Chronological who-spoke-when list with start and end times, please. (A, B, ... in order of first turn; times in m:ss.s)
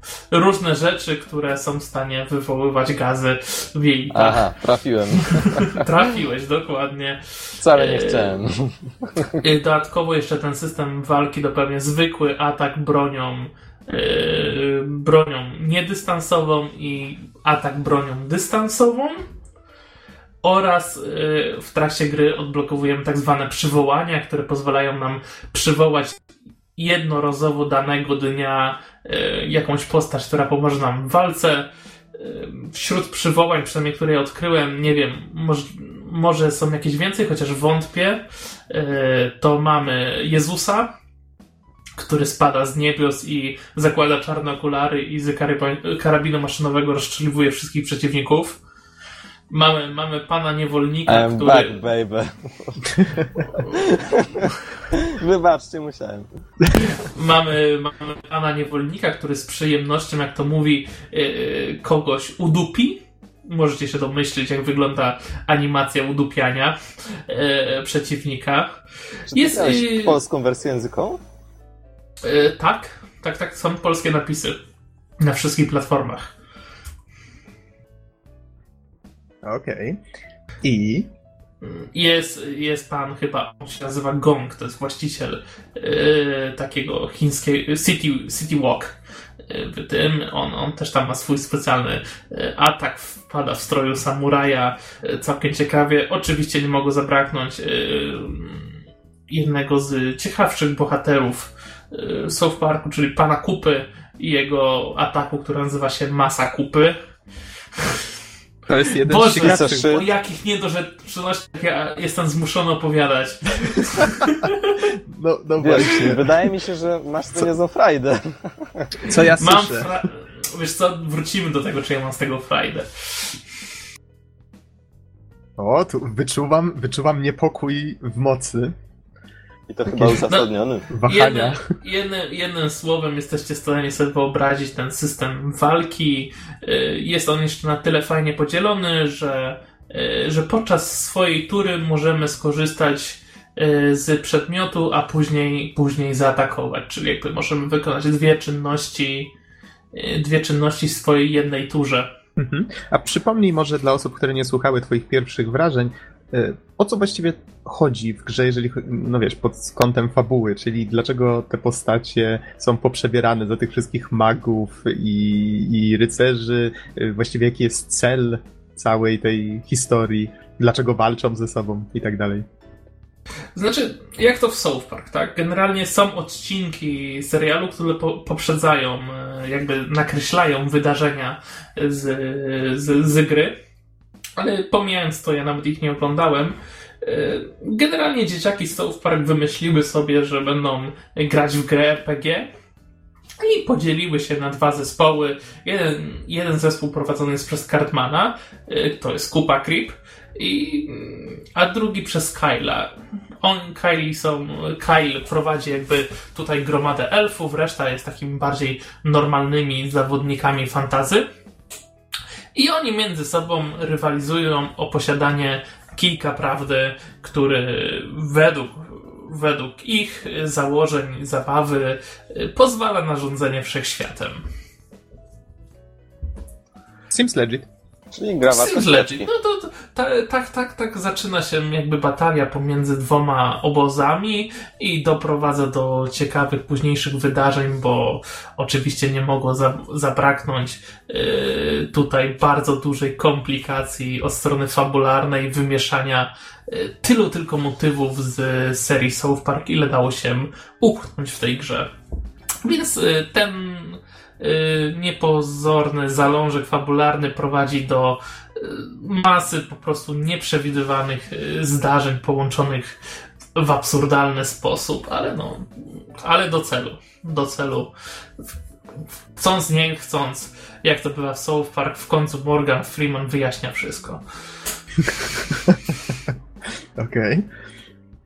0:00.3-0:04.5 A
0:04.1-0:05.8 B
0:05.1-0:08.4 A
0:07.6-0:09.4 B
0:09.4-0:19.2 A
0:20.4-0:26.2 A
0:26.8-0:40.9 A
0:42.0-0:48.6 A
0:49.5-0:51.8 A
0:51.1-0:56.3 B
0:56.8-1:08.7 A
1:09.3-1:10.2 A
1:09.3-1:11.2 B
1:12.2-1:14.6 A
1:15.2-1:16.3 A
1:19.4-1:20.0 C
1:20.6-1:21.1 C
1:21.6-1:38.7 A
1:39.3-1:47.0 A
1:47.8-1:48.1 A
1:48.7-1:49.9 C
1:49.0-1:54.8 A
1:49.3-1:50.0 B
1:55.1-1:56.2 C
1:55.6-1:58.9 B
1:59.0-2:00.0 C
1:59.1-2:03.4 A
2:05.6-2:08.7 C
2:09.7-2:10.9 B
2:09.9-2:10.2 C
2:10.9-2:11.6 C
2:11.0-2:29.3 A
2:29.9-2:32.1 A
2:32.4-2:52.4 C
2:53.5-3:03.6 A
3:04.4-3:12.5 A
3:13.4-3:31.2 A
3:32.5-3:44.4 A
3:47.1-3:47.7 C
3:48.1-3:49.3 B
3:48.5-4:11.9 A
4:12.6-4:23.0 A
4:23.6-4:27.9 A
4:29.4-4:34.2 A
4:35.5-4:36.3 C
4:37.0-4:37.4 C